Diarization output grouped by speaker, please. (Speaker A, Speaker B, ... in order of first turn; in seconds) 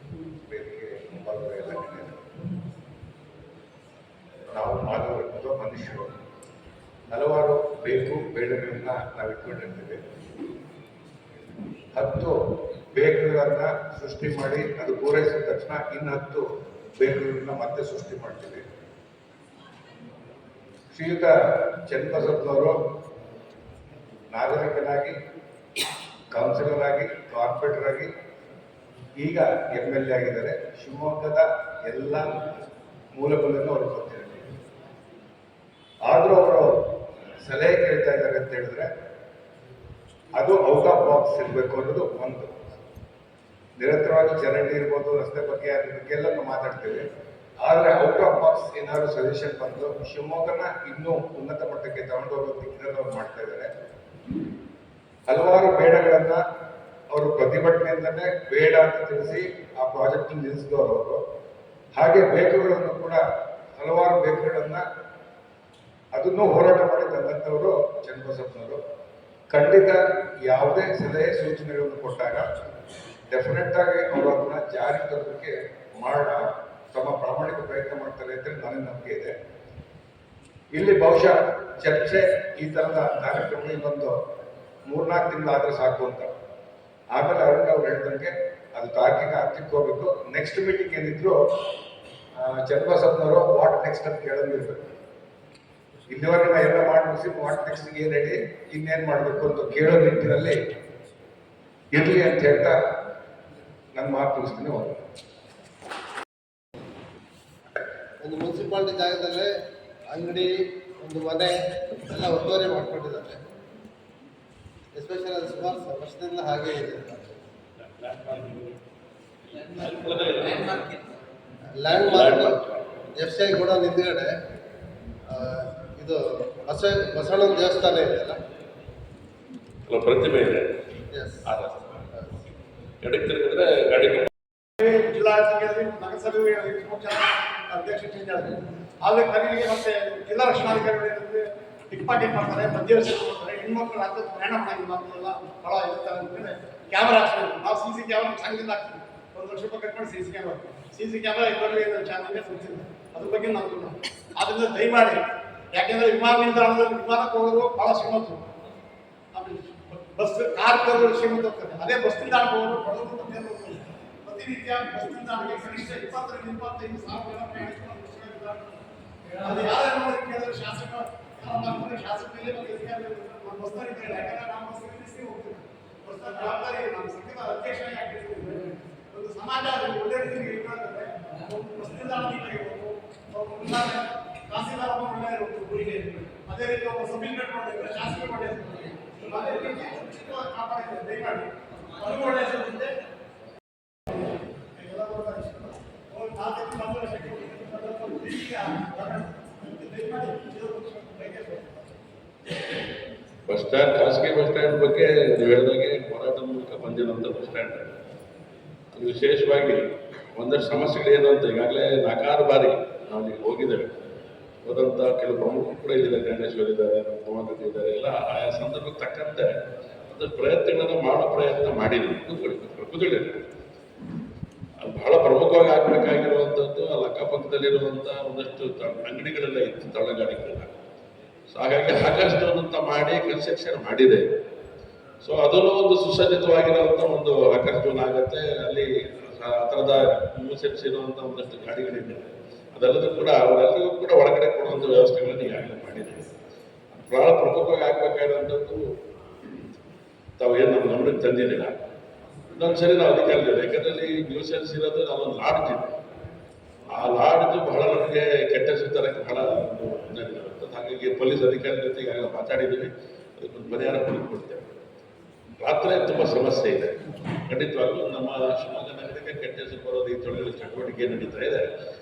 Speaker A: 0.5-2.2, 4.5-6.2, 7.1-10.0, 11.9-18.6, 20.9-22.8, 24.3-25.2, 26.3-28.1, 29.2-32.5, 33.1-34.5, 36.0-38.9, 40.3-42.6, 43.8-47.1, 47.6-53.7, 55.3-56.4, 57.1-61.2, 62.0-63.2, 63.8-64.8, 66.1-68.8, 69.5-72.4, 73.3-79.3, 80.8-84.2, 84.9-86.3, 87.1-91.4, 92.4-94.9, 96.1-100.6, 101.9-102.8, 104.0-105.0
Speaker B: 108.3-109.4, 111.1-111.5, 112.1-113.3, 115.0-117.1, 121.8-122.5, 123.2-124.3, 125.3-126.2, 126.7-128.4, 131.1-131.4
Speaker C: 117.9-118.7, 119.6-120.9, 121.9-122.9, 129.9-130.8, 131.5-132.0, 133.0-134.3, 203.5-207.9, 208.9-209.8, 210.4-213.9, 214.6-219.5, 220.1-223.4, 224.8-230.8, 231.5-234.2, 235.2-246.3, 247.0-248.8, 250.4-251.8, 252.5-255.8, 256.9-264.8, 265.6-267.0, 267.5-271.6
Speaker D: 134.8-158.5, 159.3-168.8, 169.4-192.9, 194.8-202.0